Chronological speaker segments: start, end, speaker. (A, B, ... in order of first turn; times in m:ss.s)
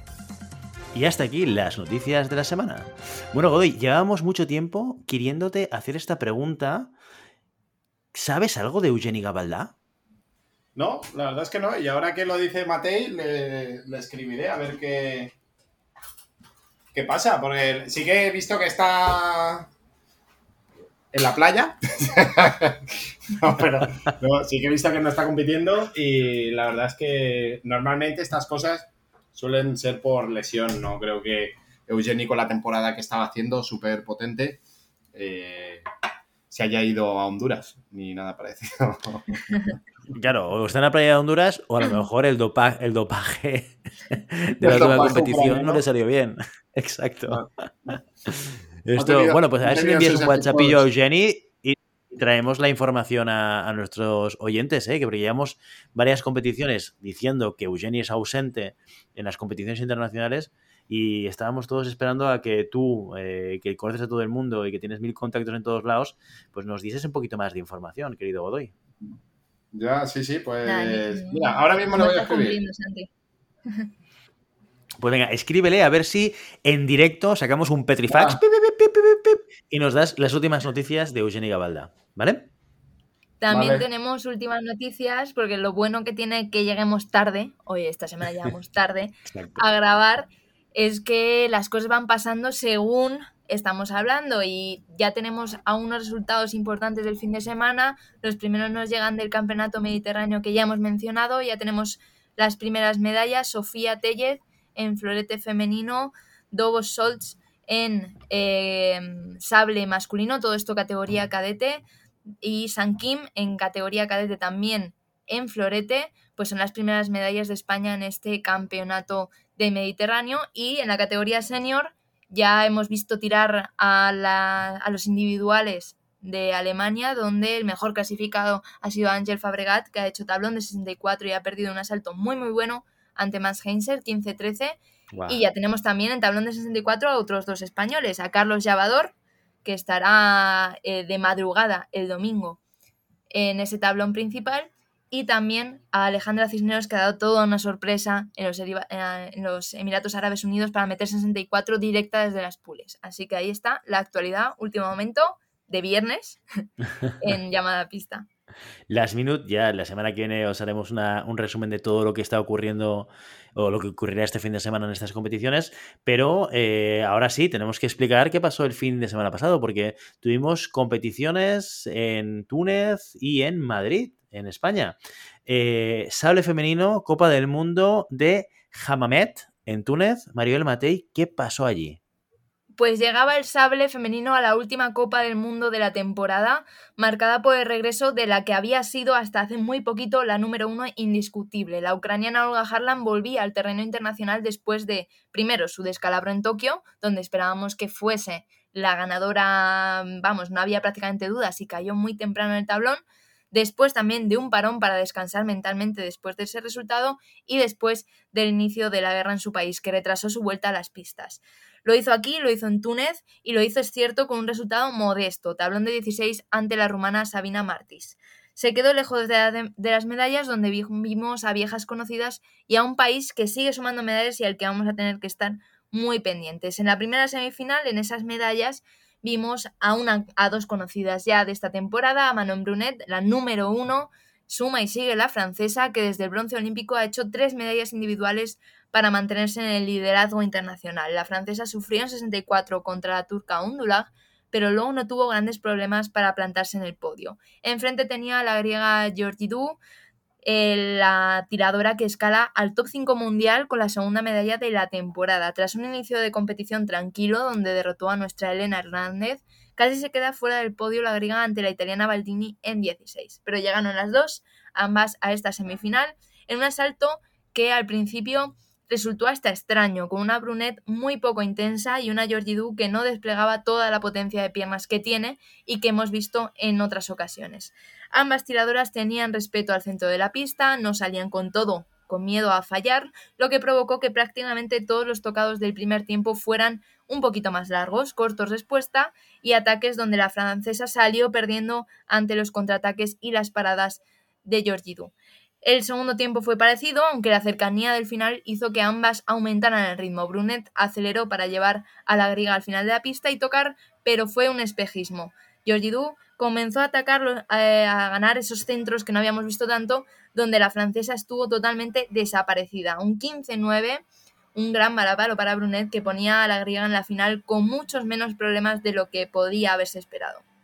0:00.9-0:06.9 A
0:08.1-0:09.7 A
0:10.8-0:15.3 B
0:16.9-0:19.7 B
0:21.1-0:34.6 B
0:35.1-0:35.8 B
0:36.5-0:39.8 B
0:40.1-0:47.5 A
0:44.6-0:45.8 B
0:48.3-1:08.7 A
0:49.0-0:50.8 B
1:09.7-1:12.6 B
1:10.6-1:13.1 C
1:15.0-1:22.5 A
1:18.1-1:18.4 B
1:23.4-1:51.8 C
1:23.5-1:23.9 B
1:29.3-1:29.6 A
1:52.4-2:19.1 C
2:15.1-2:15.4 A
2:19.6-2:22.6 C
2:23.3-2:36.4 C
2:37.2-2:38.3 C
2:38.9-3:02.0 A
3:02.8-3:23.0 C
3:23.5-4:09.8 C
4:10.4-5:14.0 C
5:14.6-5:20.4 C